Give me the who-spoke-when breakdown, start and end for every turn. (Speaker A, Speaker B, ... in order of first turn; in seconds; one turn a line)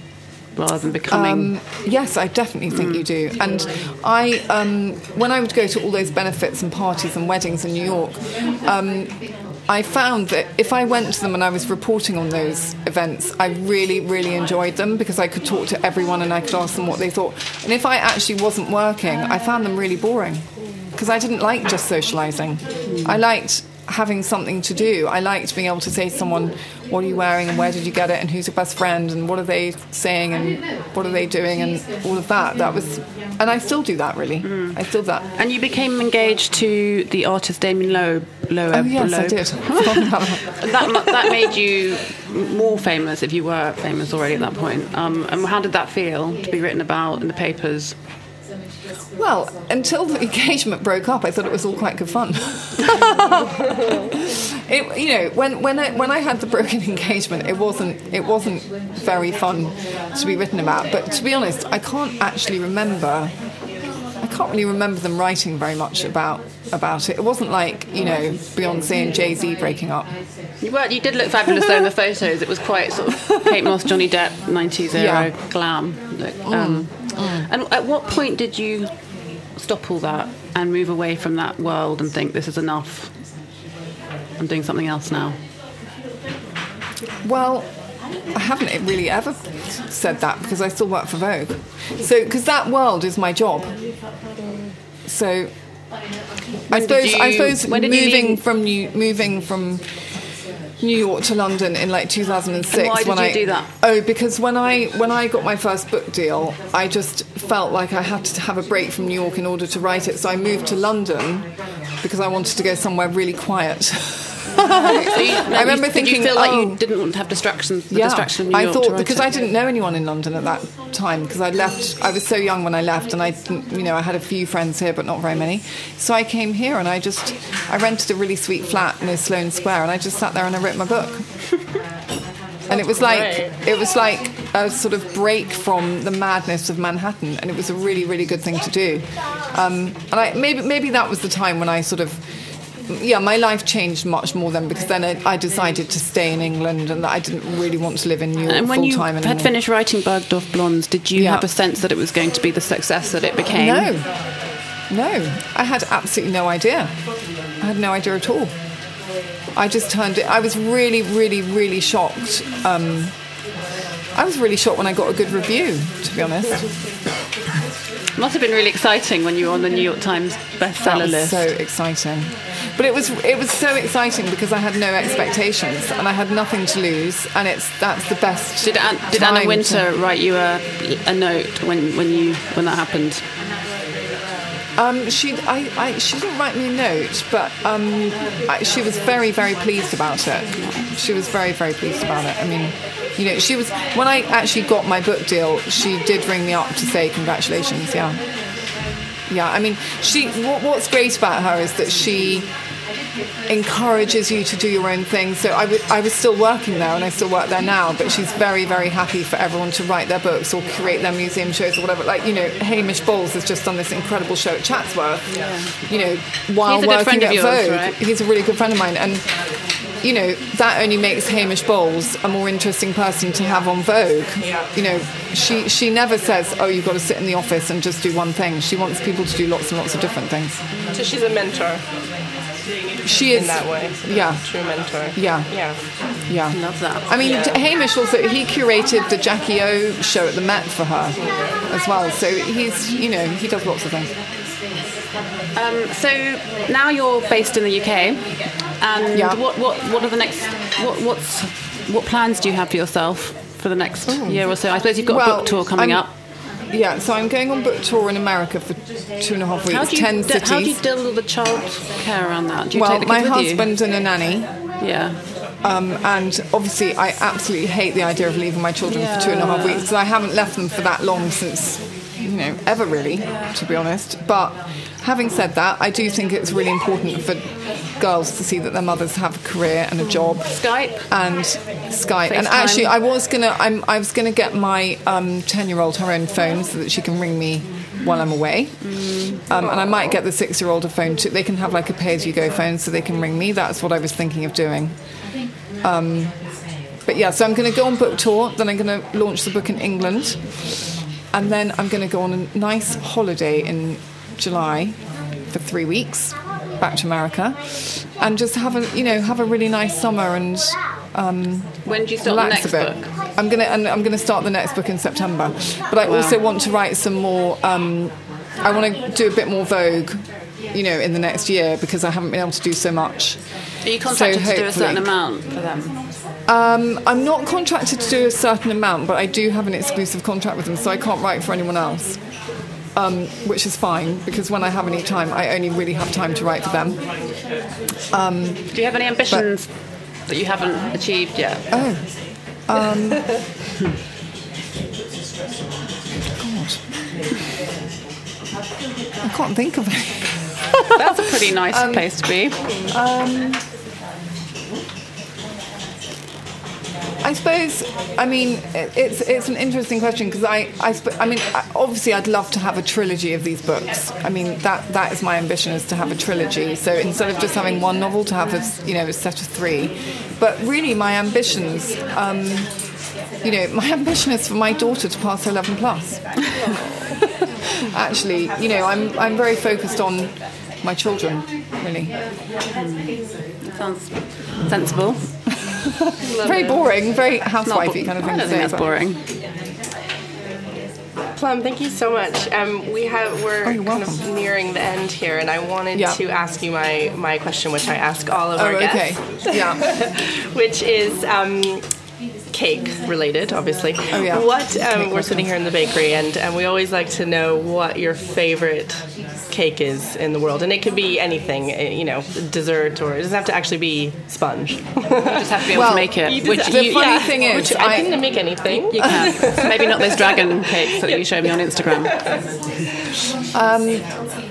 Speaker A: 0.6-1.5
Speaker B: 1.1-35.3
Speaker A: 2.7-3.0
Speaker A: 22.9-23.2
Speaker A: 34.4-34.8
Speaker A: 35.4-47.9
Speaker B: 38.7-41.5
Speaker B: 49.2-63.3
Speaker B: 64.2-70.1
Speaker A: 70.6-78.9
Speaker B: 71.5-71.9
Speaker B: 73.2-73.7
Speaker B: 74.9-75.3
Speaker B: 76.5-77.5
Speaker A: 79.5-83.1
Speaker A: 84.4-85.3
Speaker B: 87.2-87.7
Speaker B: 88.3-93.7
Speaker B: 95.0-95.5
Speaker A: 96.7-98.4
Speaker B: 96.7-99.8
Speaker B: 100.8-111.5
Speaker A: 102.7-103.7
Speaker B: 112.0-116.8
Speaker A: 114.5-119.3
Speaker B: 117.9-131.2
Speaker B: 132.7-142.2
Speaker C: 132.7-133.5
Speaker B: 142.8-149.5
Speaker A: 148.4-153.9
Speaker B: 151.2-151.4
Speaker B: 153.5-154.1
Speaker B: 154.9-156.9
Speaker B: 157.6-158.5
Speaker B: 159.5-163.1
Speaker B: 164.1-166.7
Speaker A: 168.2-171.5
Speaker B: 170.8-179.8
Speaker A: 178.6-183.2
Speaker B: 184.8-198.2
Speaker A: 190.6-190.8
Speaker B: 199.3-202.5
Speaker B: 203.5-219.3
Speaker A: 215.3-215.7
Speaker A: 216.6-218.0
Speaker B: 220.0-230.6
Speaker C: 224.4-224.7
Speaker A: 230.7-231.0
Speaker C: 230.9-231.8
Speaker B: 233.0-234.4
Speaker C: 233.2-235.8
Speaker B: 235.1-244.1
Speaker A: 236.5-237.5
Speaker C: 237.2-237.5
Speaker C: 241.2-241.5
Speaker A: 245.5-256.1
Speaker B: 249.1-249.4
Speaker C: 254.1-254.4
Speaker B: 255.1-256.1
Speaker B: 256.7-260.8
Speaker A: 259.7-263.7
Speaker B: 262.7-264.5
Speaker A: 264.8-265.2
Speaker B: 265.6-294.9
Speaker A: 268.8-269.9
Speaker A: 280.4-281.1
Speaker A: 282.2-282.9
Speaker A: 288.8-289.4
Speaker C: 289.5-290.0
Speaker B: 295.8-296.4
Speaker B: 297.1-300.4
Speaker B: 301.3-305.0
Speaker B: 305.5-323.4
Speaker A: 311.8-313.1
Speaker A: 316.0-316.4
Speaker A: 323.8-326.0
Speaker B: 324.0-325.1
Speaker B: 326.5-332.2
Speaker B: 332.9-337.0
Speaker B: 338.1-338.7
Speaker A: 338.7-339.7
Speaker A: 340.3-341.6
Speaker B: 341.7-342.1
Speaker B: 342.6-343.3
Speaker B: 346.4-346.8
Speaker B: 349.2-352.3
Speaker A: 350.9-352.6
Speaker C: 352.6-352.9
Speaker B: 352.9-353.6
Speaker B: 357.2-372.7
Speaker B: 373.4-382.1
Speaker A: 382.7-385.2
Speaker B: 385.6-388.9
Speaker A: 386.3-387.0
Speaker A: 387.6-389.2
Speaker C: 391.4-401.8
Speaker B: 393.6-394.2
Speaker B: 395.9-396.2
Speaker B: 398.5-399.9
Speaker C: 402.5-421.2
Speaker B: 404.1-405.5
Speaker A: 415.2-417.2
Speaker B: 415.7-419.3
Speaker A: 418.7-422.4
Speaker C: 422.1-422.4
Speaker B: 423.5-424.1